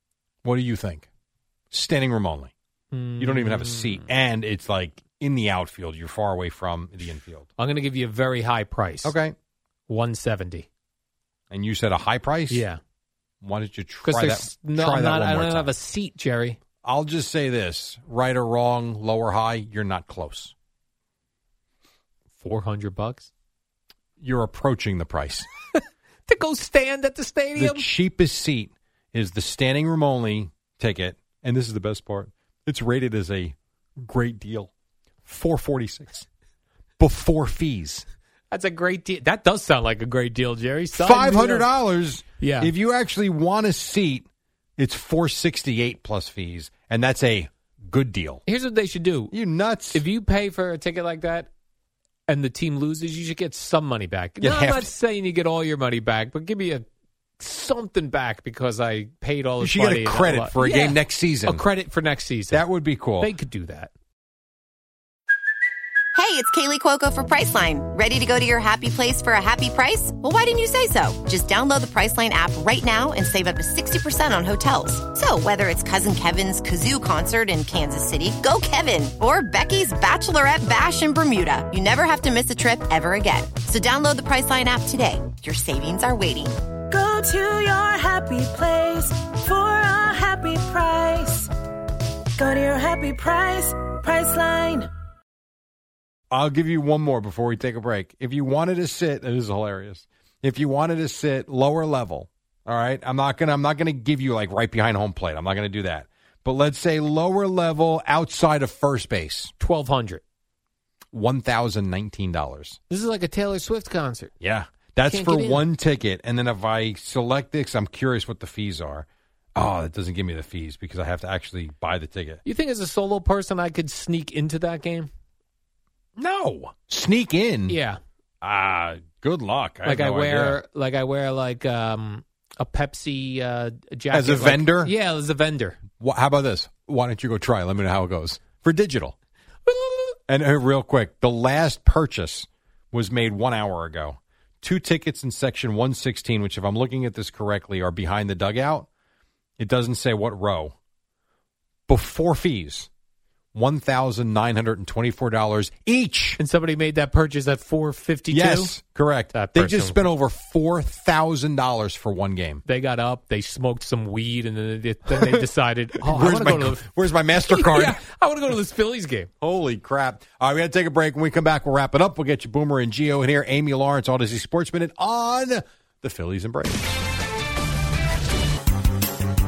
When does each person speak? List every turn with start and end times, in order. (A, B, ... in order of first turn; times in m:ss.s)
0:00.4-0:01.1 A
0:01.7-0:02.5 A
0:02.9-0:04.1 B
0:03.2-0:07.5 A
0:07.6-0:09.2 B
0:09.0-0:09.4 A
0:09.9-0:10.7 B
0:11.5-0:12.6 A
0:12.5-0:12.8 B
0:13.4-0:15.7 A
0:14.0-0:16.6 B
0:16.8-0:20.5 A
0:22.4-0:23.3 B
0:24.2-0:25.5 A
0:26.3-0:27.9 B
0:27.6-0:34.7 A
0:35.3-0:36.3 A
0:37.0-0:38.0 A
0:38.5-0:41.7 B
0:40.9-0:44.3 A
0:42.4-0:42.7 B
0:44.8-0:48.4 A
0:48.5-0:49.3 B
0:49.3-0:50.0 A
0:49.9-0:51.5 B
0:52.3-0:56.8 B
0:54.4-0:54.9 A
0:57.4-1:02.6 B
0:59.6-1:01.6 A
1:02.5-1:03.3 A
1:03.2-1:03.9 B
1:06.2-1:26.6 C
1:26.9-1:31.5 D
1:32.4-1:34.9 D
1:36.3-1:49.5 A
1:49.6-1:50.2 B
1:51.1-1:52.8 A
1:52.9-1:54.3 B
1:54.4-2:02.4 A
1:55.1-1:55.7 B
2:02.4-2:05.1 B
2:06.2-2:07.8 A
2:07.7-2:08.0 B
2:08.4-2:10.6 A
2:09.8-2:15.8 B
2:14.1-2:14.9 A
2:16.0-2:19.2 A
2:19.7-2:20.2 B
2:20.3-2:28.9 A
2:29.6-2:30.8 A
2:31.9-2:32.9 A
2:33.6-2:36.4 A
2:36.4-2:38.8 B
2:38.3-2:42.6 A
2:39.3-2:40.0 B
2:42.6-2:49.3 B
2:46.0-2:48.0 A
2:49.4-2:57.0 A